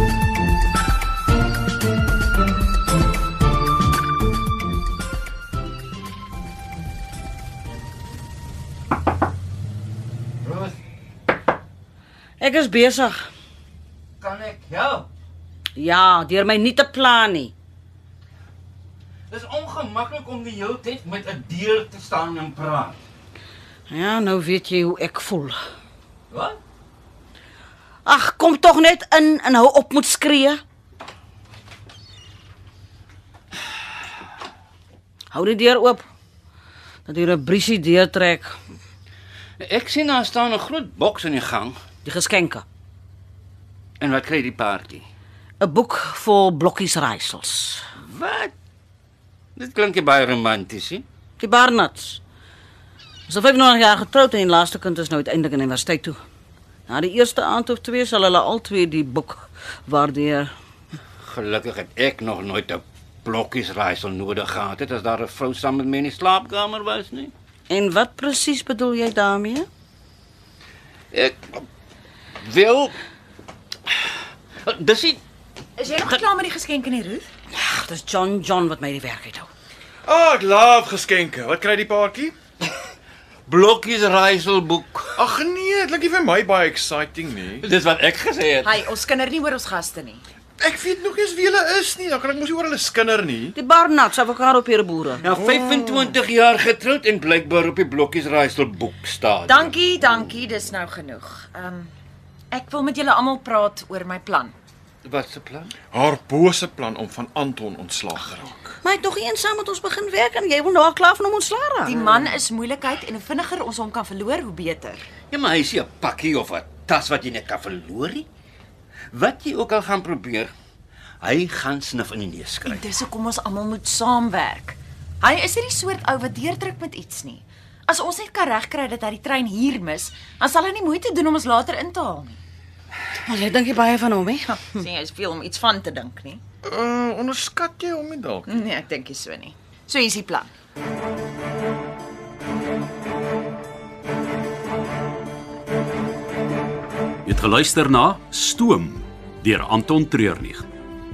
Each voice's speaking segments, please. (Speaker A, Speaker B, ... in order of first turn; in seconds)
Speaker A: 10.4-10.8, 14.2-15.1, 19.3-23.0, 26.3-26.6, 39.6-41.8, 44.0-45.0, 48.0-48.5, 49.5-51.0, 61.2-67.3, 71.1-71.6, 72.4-73.0, 74.6-75.2, 83.5-85.2, 87.6-88.8, 95.2-99.8, 105.0-105.7, 115.3-118.3, 119.1-120.5, 121.2-122.8
Speaker B: 12.4-13.3, 15.8-17.5, 23.9-25.6, 28.0-30.6, 35.3-36.0, 37.0-38.5, 42.0-42.6, 45.6-47.8, 51.4-52.2, 53.3-56.1, 56.9-60.5, 67.7-69.7, 77.5-79.5, 93.5-95.2, 108.8-112.0, 133.2-134.7
Speaker C: 75.8-77.3, 88.6-90.2, 99.5-101.9, 102.5-104.5, 111.8-115.1, 122.6-132.4, 134.5-136.4, 138.5-140.5
Speaker D: 80.0-82.3, 85.2-87.7, 90.6-93.5, 95.4-96.1, 105.9-108.8, 136.6-138.7
Speaker E: 147.2-150.7